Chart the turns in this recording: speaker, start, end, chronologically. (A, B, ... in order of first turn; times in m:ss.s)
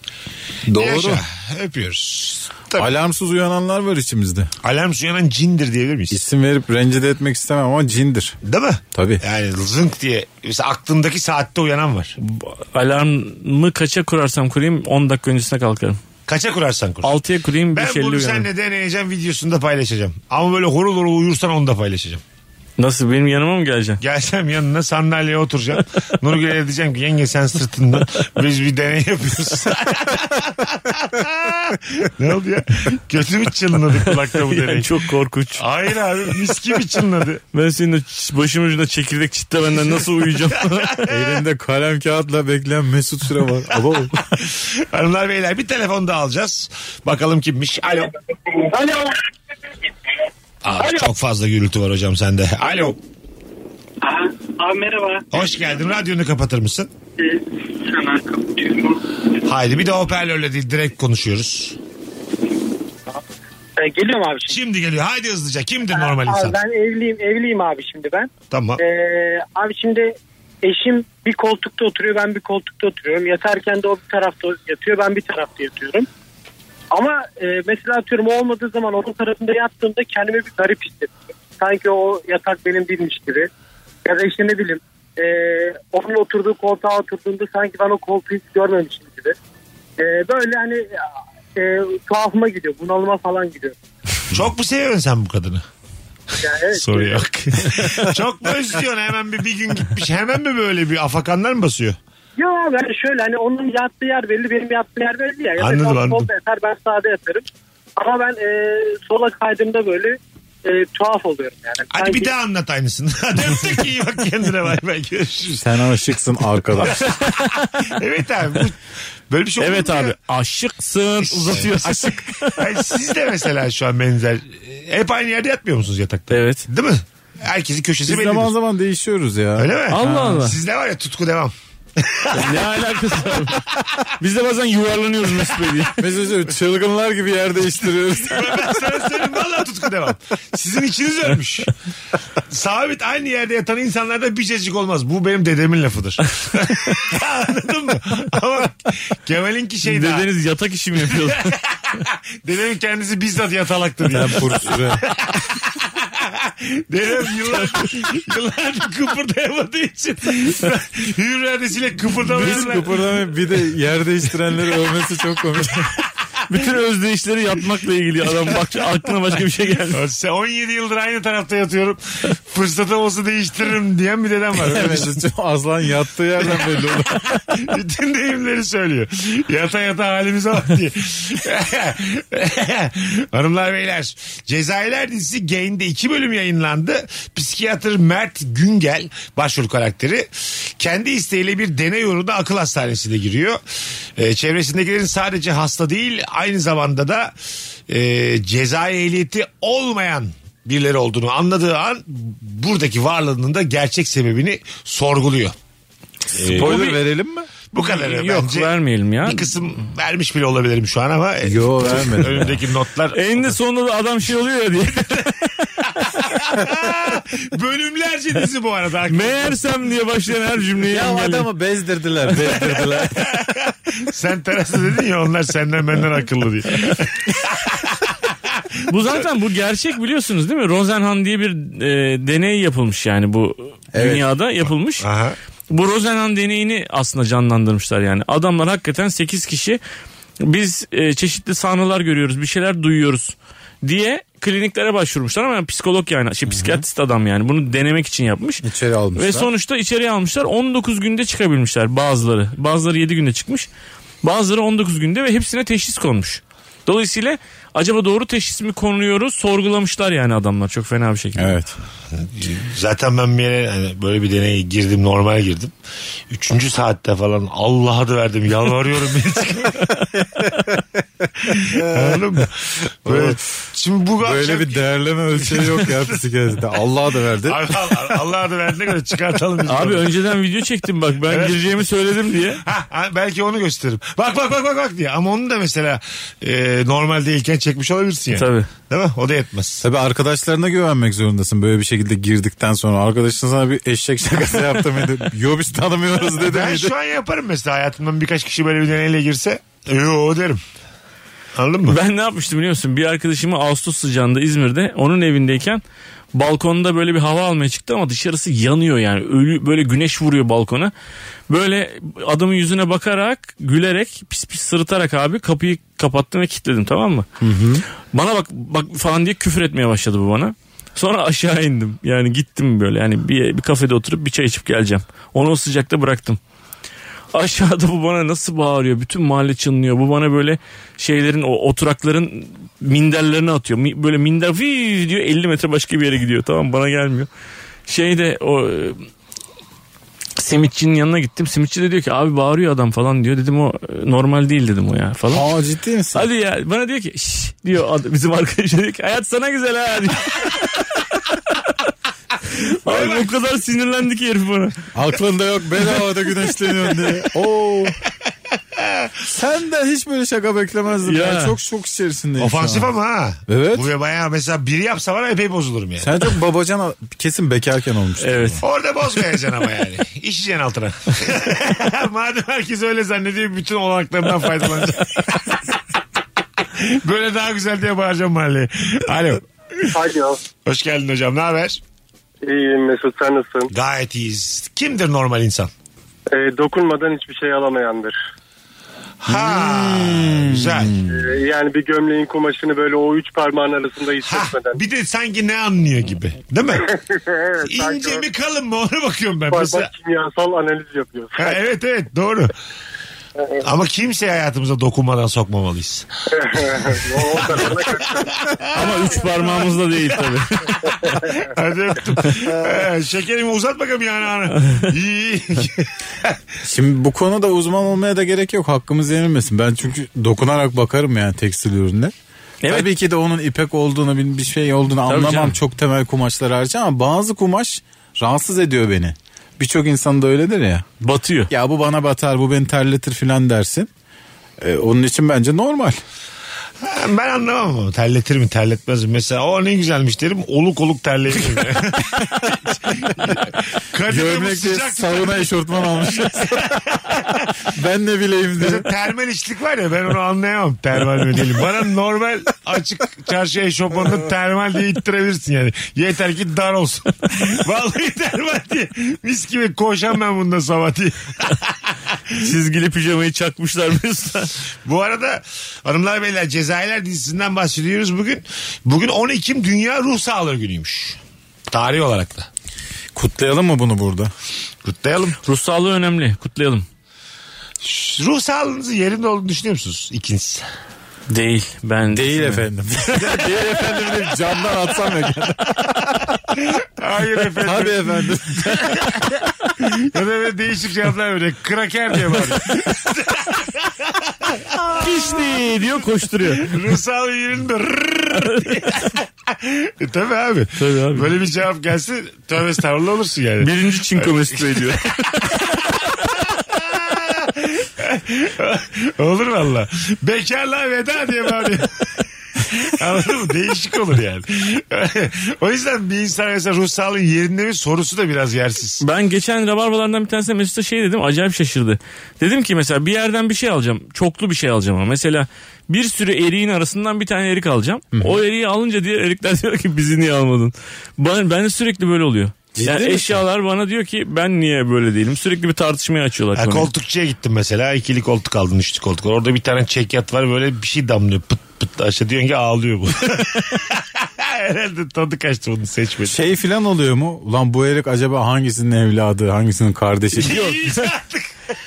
0:00.7-0:01.2 A
0:00.7-0:02.9 B
0:02.8-0:04.5 A
0:04.6-0:06.2 B
0:06.1-0:08.4 A
0:08.4-0:12.2 B
0:08.9-0:09.2 A
0:12.2-0:16.0 C
0:16.3-0:17.1 B
0:17.0-0:18.5 C
0:17.7-0:22.2 B
0:22.8-0:24.0 C
0:24.0-0:34.9 B
0:34.4-0:35.6 C
0:35.6-0:37.4 B
0:37.5-0:41.1 C
0:41.1-0:44.2 A
0:44.4-0:48.1 B
0:48.5-0:48.9 D
0:50.6-0:53.0 B
0:54.0-0:55.2 D
0:55.3-0:56.9 B
0:57.2-0:58.9 D
0:59.4-1:01.8 B
1:03.8-1:04.6 E
1:04.5-1:06.6 B
1:05.9-1:16.1 E
1:08.5-1:08.8 B
1:16.9-1:23.5 E
1:24.0-1:29.4 E
1:30.0-1:31.0 E
1:31.6-1:33.8 E
1:34.3-1:35.6 B
1:36.4-1:37.2 E
1:36.7-1:42.0 B
1:42.4-1:47.4 E
1:45.6-1:46.3 B
1:48.0-1:52.3 E
1:51.9-1:55.7 B
1:55.6-1:57.0 A
1:56.8-1:58.8 B
1:57.0-1:57.7 C
1:59.3-2:00.2 B
1:59.6-2:02.8 C
2:01.2-2:08.5 B
2:06.3-2:06.6 C
2:08.1-2:09.7 A
2:09.6-2:12.7 B
2:09.9-2:10.6 C
2:12.3-2:13.6 C
2:14.2-2:16.0 C
2:16.0-2:18.9 A
2:18.2-2:21.7 B
2:22.5-2:30.3 B
2:29.8-2:31.5 C
2:31.1-2:31.6 B
2:32.4-2:43.0 B
2:34.1-2:35.0 A
2:42.2-2:46.0 A
2:46.5-2:50.0 C
2:49.9-2:55.1 B
2:54.6-2:57.3 A
2:57.5-3:13.6 B
3:14.2-3:17.3 B
3:17.9-3:25.5 B
3:26.3-3:27.0 B
3:26.4-3:27.0 C
3:26.4-3:27.5 A
3:27.7-3:28.7 B
3:27.8-3:29.5 C
3:29.2-3:33.6 B
3:31.4-3:32.6 A
3:33.1-3:35.5 C
3:36.1-3:39.6 B
3:39.1-3:41.5 C
3:40.9-3:43.3 A
3:43.3-3:49.2 B
3:48.9-3:55.0 C
3:53.9-3:54.2 A
3:55.0-3:55.4 B
3:55.7-3:59.8 C
4:00.4-4:08.6 C
4:06.5-4:06.8 A
4:08.6-4:09.5 A
4:09.1-4:13.7 C
4:14.2-4:21.6 C
4:21.4-4:21.8 A
4:22.1-4:25.7 B
4:26.3-4:30.1 B
4:31.4-4:36.2 B
4:31.7-4:32.2 A
4:33.0-4:33.4 A
4:34.2-4:38.0 A
4:37.4-4:40.1 B
4:39.6-4:42.6 C
4:41.3-4:41.8 B
4:42.5-4:49.8 B
4:48.3-4:48.7 C
4:49.8-4:56.9 A
4:56.4-5:00.6 B
5:01.5-5:02.0 B
5:01.9-5:05.8 C
5:06.3-5:10.9 C
5:11.5-5:17.3 C
5:17.4-5:17.8 A
5:18.1-5:26.4 C
5:27.3-5:37.3 C
5:37.9-5:39.1 C
5:40.4-5:45.5 C
5:45.3-5:46.2 A
5:46.1-5:50.9 C
5:52.8-5:54.7 C
5:52.9-5:53.3 B
5:54.9-5:58.0 A
5:58.8-5:59.1 B
5:59.3-6:02.9 A
6:01.0-6:01.5 C
6:02.4-6:06.1 B
6:03.5-6:03.9 A
6:06.0-6:08.6 A
6:08.2-6:08.6 C
6:08.6-6:15.6 B
6:16.7-6:19.9 B
6:19.9-6:20.4 F
6:20.6-6:21.8 B
6:22.4-6:23.7 F
6:23.7-6:25.7 B
6:26.3-6:28.1 F
6:29.2-6:31.0 B
6:29.3-6:31.1 A
6:31.1-6:34.8 F
6:34.2-6:36.9 B
6:36.9-6:38.3 F
6:37.6-6:39.9 B
6:39.5-6:41.6 F
6:41.4-6:42.5 B
6:43.6-6:46.1 B
6:46.3-6:48.4 F
6:47.2-6:56.4 B
6:48.7-6:50.8 C
6:56.6-7:02.1 A
7:02.6-7:02.9 C
7:02.6-7:10.9 A
7:05.1-7:05.6 C
7:11.0-7:11.5 C
7:11.5-7:13.9 A
7:14.6-7:16.0 A
7:16.8-7:26.4 B
7:24.1-7:26.8 A
7:27.7-7:28.9 A
7:28.6-7:42.4 B
7:42.4-7:44.5 C
7:44.8-7:51.2 B
7:51.7-7:52.5 B
7:53.1-7:54.3 A
7:54.8-7:55.4 B
7:55.4-7:56.8 C
7:57.8-8:00.6 B
8:01.3-8:02.6 C
8:02.1-8:06.4 A
8:03.6-8:03.9 B
8:06.6-8:09.2 B
8:07.6-8:09.4 A
8:09.8-8:15.1 B
8:15.0-8:16.7 C
8:16.6-8:24.9 B
8:20.8-8:21.4 C
8:23.6-8:25.6 C
8:25.5-8:39.0 B
8:39.0-8:56.9 C
8:48.1-8:48.4 A
8:52.7-8:53.4 A
8:56.6-9:06.4 B
9:06.2-9:10.7 A
9:10.4-9:11.6 B
9:10.4-9:11.1 C